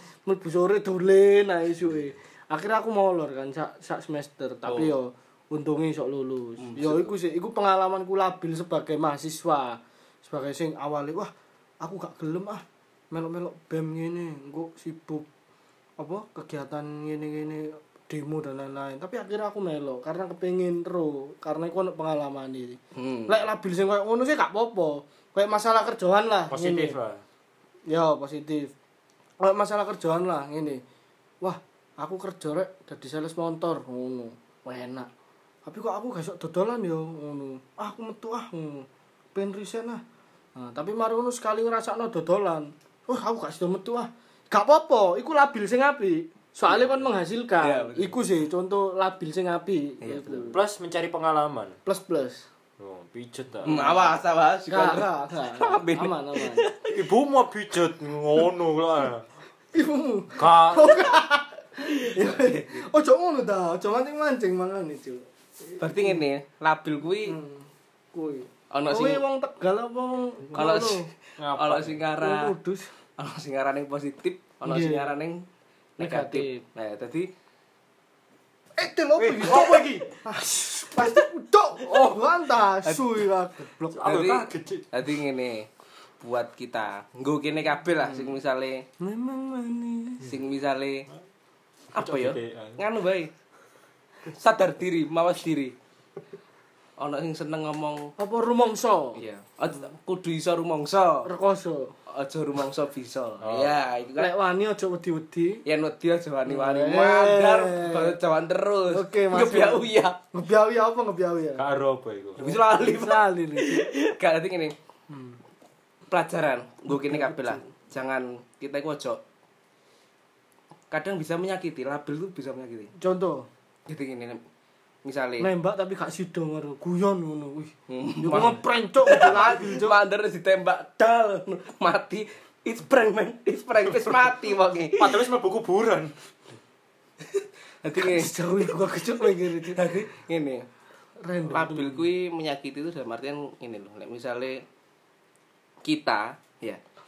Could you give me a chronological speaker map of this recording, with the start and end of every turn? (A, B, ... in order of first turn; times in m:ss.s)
0:00.2-0:15.3 A
0:04.6-0:05.0 B
0:06.6-0:07.1 B
0:16.0-0:27.0 A
0:23.0-0:23.4 B
0:26.5-0:27.2 C
0:27.9-0:28.7 A
0:29.4-0:30.8 A
0:31.4-0:35.1 A
0:35.6-0:40.0 A
0:40.6-0:50.6 A
0:47.6-0:48.2 B
0:50.0-0:50.5 B
0:50.5-0:51.8 C
0:51.9-0:52.4 A
0:52.8-0:54.0 C
0:53.6-0:57.0 B
0:53.7-0:54.0 A
0:54.7-0:56.7 A
0:56.9-0:59.2 C
0:59.7-1:06.2 A
1:00.4-1:01.1 C
1:02.0-1:02.8 B
1:05.8-1:07.4 B
1:07.2-1:11.1 A
1:08.7-1:09.2 B
1:10.5-1:12.6 B
1:11.4-1:12.0 C
1:12.2-1:12.9 A
1:13.2-1:15.4 B
1:14.6-1:15.1 A
1:16.0-1:17.3 B
1:16.0-1:16.6 A
1:18.8-1:24.4 A
1:19.2-1:20.1 C
1:21.8-1:22.2 B
1:22.8-1:23.2 B
1:23.9-1:24.9 C
1:24.0-1:25.7 B
1:26.2-1:28.8 B
1:29.0-1:30.3 A
1:30.2-1:31.1 B
1:31.9-1:33.3 B
1:32.0-1:32.8 C
1:34.3-1:35.7 B
1:37.0-1:38.1 B
1:38.2-1:39.2 A
1:39.2-1:41.3 B
1:41.2-1:41.9 A
1:42.1-1:44.3 B
1:43.4-1:43.8 C
1:44.2-1:45.6 A
1:45.6-1:50.2 B
1:46.5-1:48.2 A
1:48.9-1:51.6 A
1:51.6-1:52.6 C
1:52.4-1:54.8 B
1:52.4-1:53.9 A
1:55.1-1:55.4 A
1:56.1-1:59.2 B
1:56.9-1:57.6 A
2:00.9-2:02.9 B
2:03.0-2:03.5 A
2:03.9-2:04.4 B
2:05.0-2:05.5 B
2:05.4-2:10.0 A
2:07.9-2:15.2 B
2:15.0-2:16.1 C
2:17.3-2:18.7 B
2:17.9-2:19.9 A
2:19.5-2:20.6 B
2:21.2-2:22.0 A
2:21.5-2:24.6 B
2:25.8-2:26.8 B